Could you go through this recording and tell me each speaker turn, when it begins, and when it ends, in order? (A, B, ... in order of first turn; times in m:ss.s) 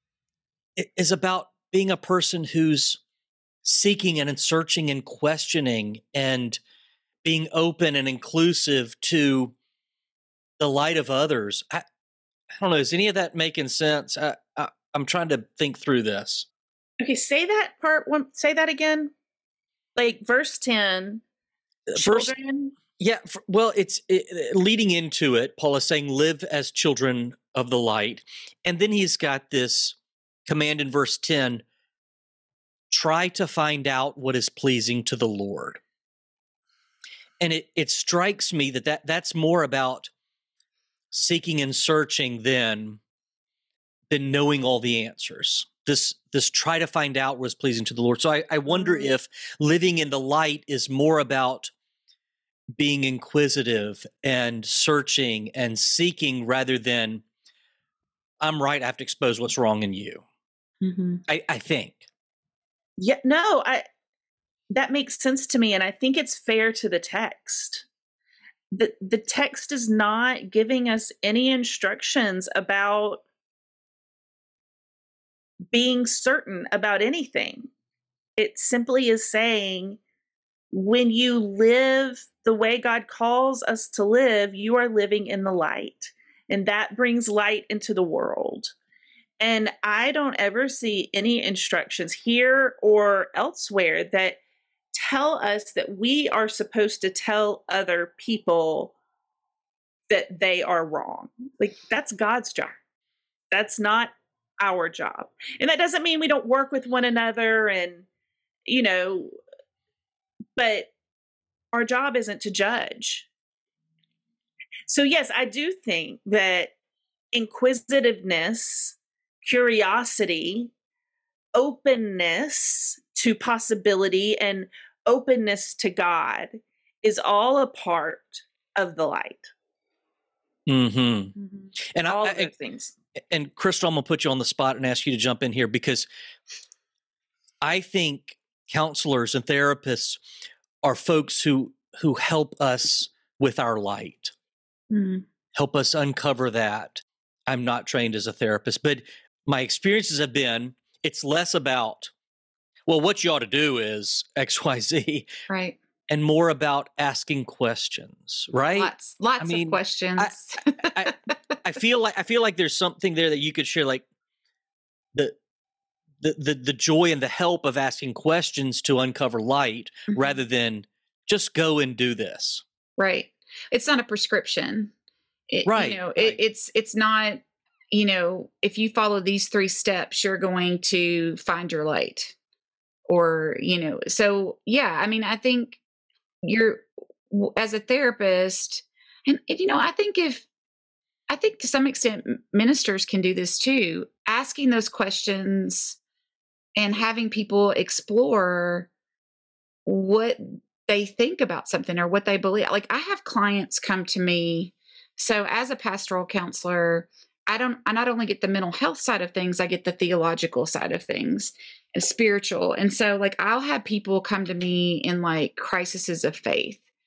0:00.8-0:03.0 A
0:03.6-0:06.6 A
0:07.2-0:09.5 A
0:10.6-0:11.8 A
0:12.6-0:16.5 A
0:17.0-0:19.1 B
0:20.0-0:21.2 B
0:21.9-0:22.3 A
0:22.0-0:22.7 B
0:23.0-0:31.6 A
0:32.9-0:35.8 A
0:37.4-0:40.1 A
0:41.1-0:43.0 A
0:44.1-0:51.7 A
0:52.7-0:57.2 A
0:58.4-1:00.2 A
1:00.8-1:01.2 C
1:01.3-1:02.0 A
1:03.0-1:03.8 B
1:04.7-1:07.8 B
1:08.7-1:13.2 B
1:15.7-1:17.7 B
1:18.4-1:20.0 B
1:20.7-1:28.7 B
1:29.4-1:34.4 B
1:34.9-1:38.9 B
1:40.1-1:42.8 B
1:43.5-1:48.0 B
1:48.7-1:49.3 B
1:50.6-1:50.9 B
1:51.7-1:53.3 B
1:54.9-1:56.7 B
1:57.3-2:00.7 B
2:01.5-2:09.5 B
2:10.7-2:11.3 A
2:11.7-2:12.9 B
2:11.9-2:12.5 A
2:13.3-2:16.1 A
2:17.6-2:20.2 A
2:20.8-2:24.3 A
2:24.9-2:25.2 C
2:25.5-2:32.1 A
2:32.9-2:35.3 A
2:35.5-2:35.8 C
2:36.1-2:40.4 A
2:38.7-2:41.1 C
2:40.9-2:44.0 A
2:46.2-2:52.6 A
2:53.0-2:54.9 C
2:55.5-3:02.3 C
2:55.6-2:56.4 A
3:03.1-3:05.8 C
3:06.4-3:10.5 C
3:11.3-3:16.0 C
3:16.8-3:18.9 C
3:19.8-3:36.8 C